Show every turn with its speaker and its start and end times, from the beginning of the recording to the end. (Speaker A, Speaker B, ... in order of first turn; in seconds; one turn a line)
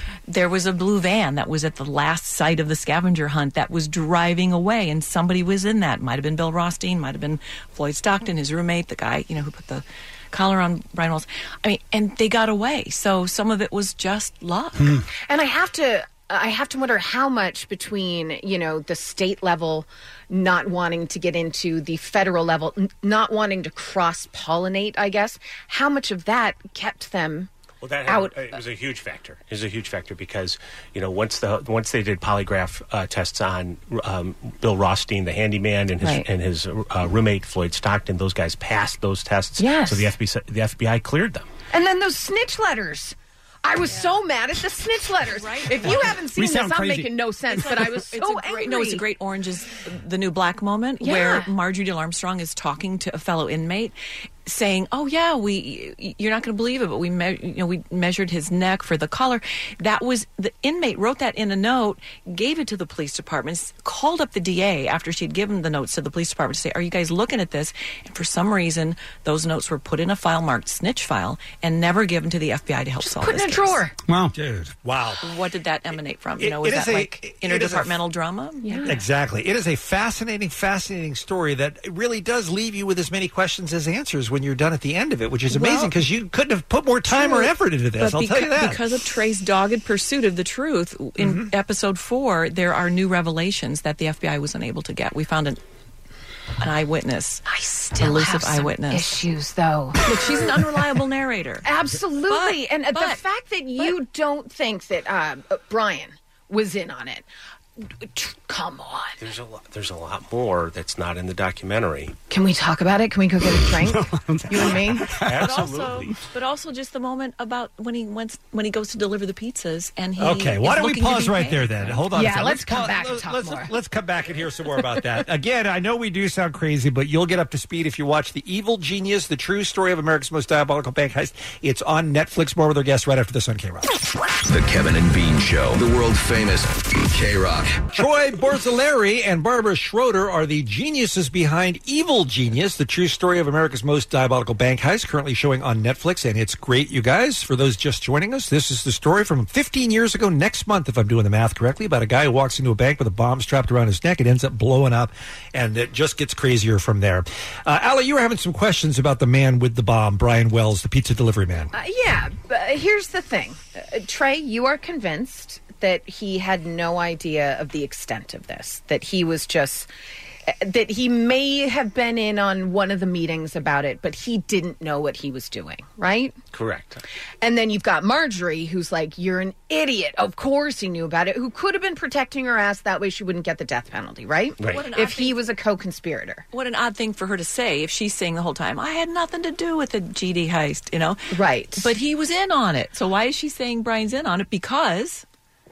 Speaker A: 0.3-15.0
Speaker B: 14.8-15.0
Speaker C: 15.3-27.5
Speaker D: 27.8-41.5
Speaker C: 28.1-28.4
Speaker C: 36.0-36.3
Speaker C: 39.6-40.1
Speaker C: 41.7-49.1
Speaker A: 43.9-44.1
Speaker A: 45.2-46.2
Speaker B: 46.2-47.1
Speaker A: 47.5-53.9
Speaker C: 51.0-51.5
Speaker A: 54.5-73.8
Speaker C: 73.0-73.9
Speaker B: 74.1-74.3
Speaker E: 74.3-75.2
Speaker A: 75.2-79.0
Speaker E: 76.4-78.0
Speaker C: 78.6-79.0
Speaker E: 78.8-88.8
Speaker C: 85.5-85.9
Speaker A: 87.1-95.6
Speaker E: 91.2-91.5
Speaker A: 96.6-99.3
Speaker C: 97.5-100.5
Speaker A: 100.0-101.7
Speaker C: 101.6-107.3
Speaker A: 102.3-103.2
Speaker C: 107.8-109.2
Speaker D: 109.2-112.2
Speaker C: 112.3-115.1
Speaker B: 113.5-115.5
Speaker D: 115.2-116.2
Speaker A: 115.3-122.1
Speaker E: 120.2-133.9
Speaker C: 122.1-123.7
Speaker F: 134.4-137.9
Speaker E: 137.9-161.7
Speaker C: 161.7-169.9
Speaker C: 170.5-176.4
Speaker D: 176.5-177.0
Speaker C: 177.4-186.5
Speaker D: 184.6-184.9
Speaker A: 184.7-185.4
Speaker A: 186.5-195.2
Speaker C: 191.3-191.9